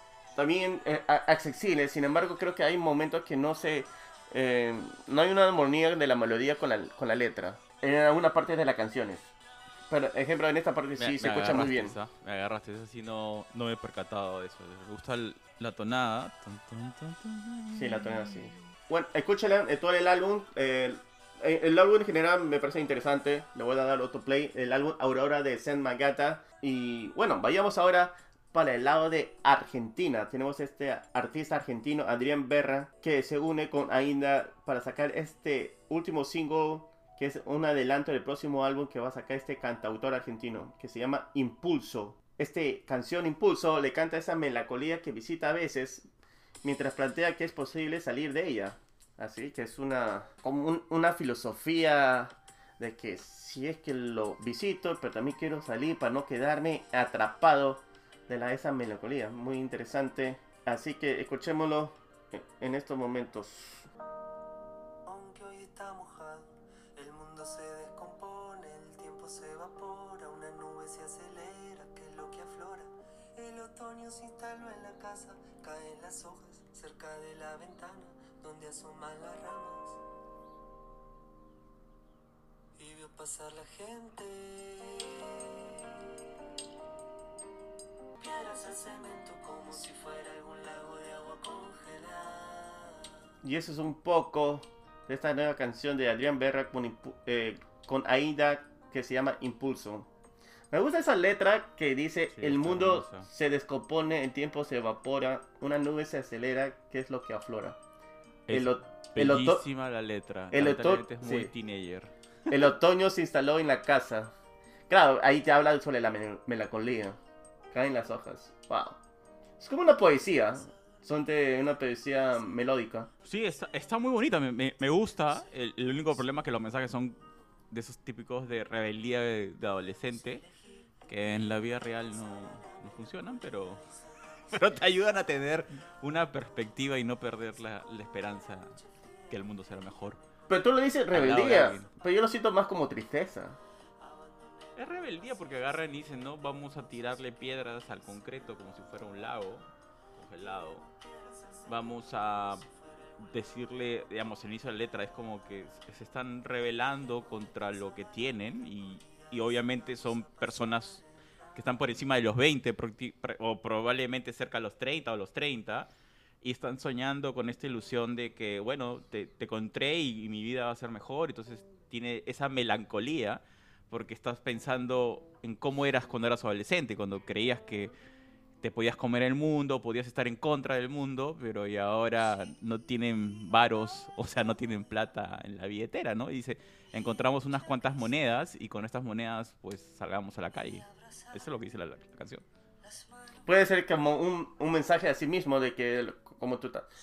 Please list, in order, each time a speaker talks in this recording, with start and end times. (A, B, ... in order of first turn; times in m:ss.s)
0:00.4-0:09.3 A
0:09.9-0:11.9 A
0:11.0-0:18.5 B
0:17.7-0:46.1 A
0:46.6-1:03.9 A
1:05.0-1:20.0 C
1:22.8-1:25.6 C
1:28.2-1:33.1 C
1:33.4-1:40.1 A
1:40.7-1:47.8 A
1:42.3-1:43.3 B
1:48.5-1:52.1 B
1:48.5-1:49.6 A
1:50.5-1:51.5 A
1:52.5-1:54.3 A
1:54.9-1:57.2 A
1:57.7-1:59.0 A
1:59.6-2:03.1 A
2:03.2-2:07.2 B
2:07.7-2:10.4 B
2:11.1-2:13.8 B
2:14.5-2:20.2 B
2:20.5-2:23.6 A
2:21.1-2:21.9 B
2:24.3-2:24.5 C
2:24.8-2:30.8 B
2:31.6-2:32.6 B
2:31.6-2:33.3 C
2:33.2-2:41.0 B
2:41.5-2:45.9 B
2:46.4-2:57.9 B
2:58.6-3:12.4 B
3:12.8-3:13.5 C
3:13.4-3:16.8 A